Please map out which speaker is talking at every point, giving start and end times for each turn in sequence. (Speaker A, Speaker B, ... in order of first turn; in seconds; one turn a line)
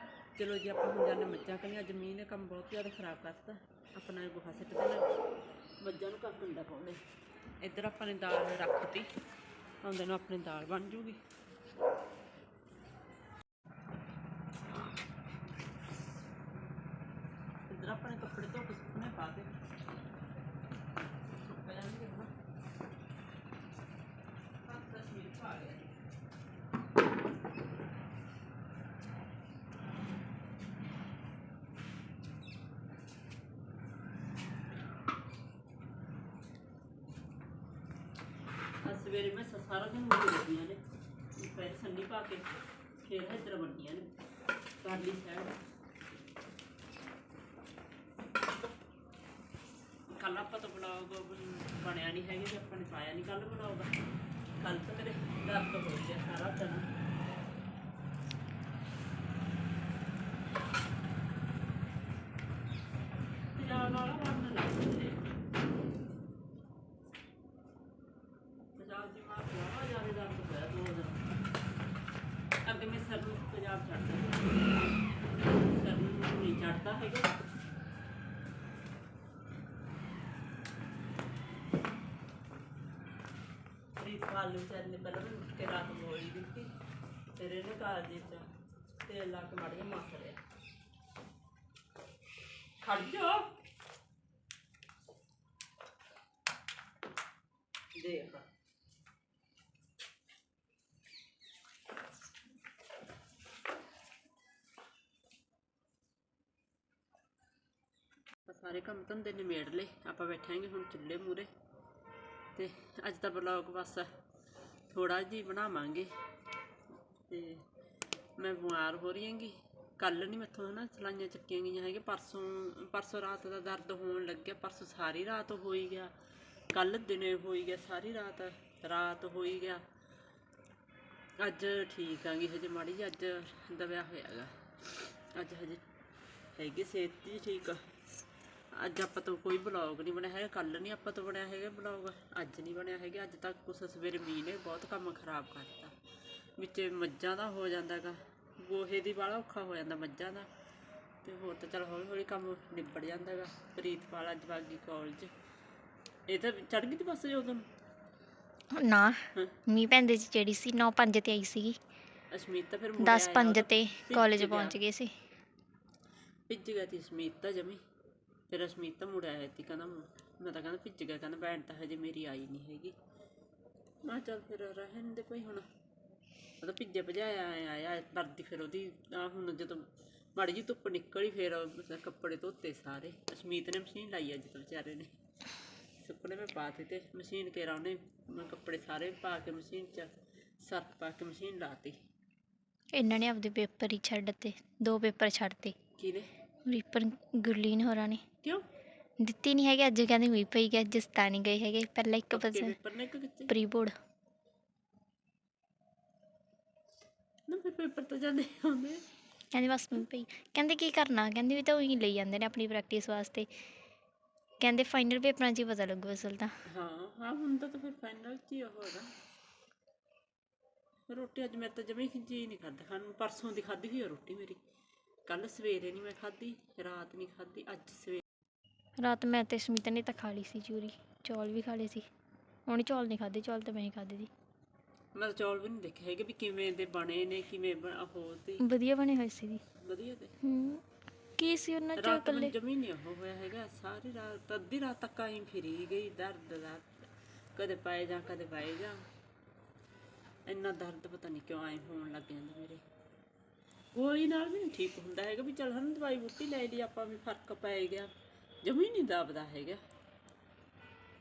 Speaker A: 0.3-5.1
Speaker A: 5.8-7.0
Speaker A: 7.6-9.1
Speaker A: 9.8-11.2
Speaker A: 17.7-19.5
Speaker A: 21.4-22.3
Speaker A: 24.6-25.9
Speaker A: 38.8-40.8
Speaker A: 41.3-44.1
Speaker A: 44.8-45.6
Speaker A: 50.1-53.9
Speaker A: 54.6-56.9
Speaker A: 63.5-65.2
Speaker A: 68.8-71.3
Speaker A: 72.6-74.5
Speaker A: 75.5-77.3
Speaker A: 84.0-86.7
Speaker A: 87.3-90.4
Speaker A: 92.8-93.5
Speaker A: 97.9-98.5
Speaker A: 108.5-111.5
Speaker A: 112.5-114.1
Speaker A: 114.9-116.1
Speaker A: 117.3-117.6
Speaker A: 118.4-126.1
Speaker A: 126.7-129.8
Speaker A: 131.4-135.8
Speaker A: 136.5-137.8
Speaker A: 138.7-145.9
Speaker A: 146.6-150.5
Speaker A: 151.2-155.3
Speaker A: 156.3-157.7
Speaker B: 158.7-161.8
Speaker A: 162.3-164.8
Speaker B: 163.0-165.1
Speaker A: 166.5-167.8
Speaker A: 168.5-172.9
Speaker A: 174.0-175.7
Speaker A: 176.6-185.2
Speaker A: 186.0-192.0
Speaker B: 192.9-195.7
Speaker A: 196.0-196.3
Speaker B: 196.7-198.2
Speaker B: 199.2-202.8
Speaker A: 202.3-203.5
Speaker B: 203.5-203.9
Speaker A: 207.5-209.1
Speaker B: 209.5-213.5
Speaker B: 214.6-216.6
Speaker A: 216.7-219.1
Speaker A: 221.1-224.6
Speaker A: 225.2-228.2
Speaker B: 229.0-232.1
Speaker B: 232.7-234.3
Speaker A: 235.1-238.6
Speaker B: 238.6-239.6
Speaker A: 239.8-240.3
Speaker B: 240.4-240.8
Speaker B: 241.4-242.5
Speaker A: 241.9-249.1
Speaker A: 250.4-252.8
Speaker A: 253.9-258.1
Speaker A: 258.6-259.8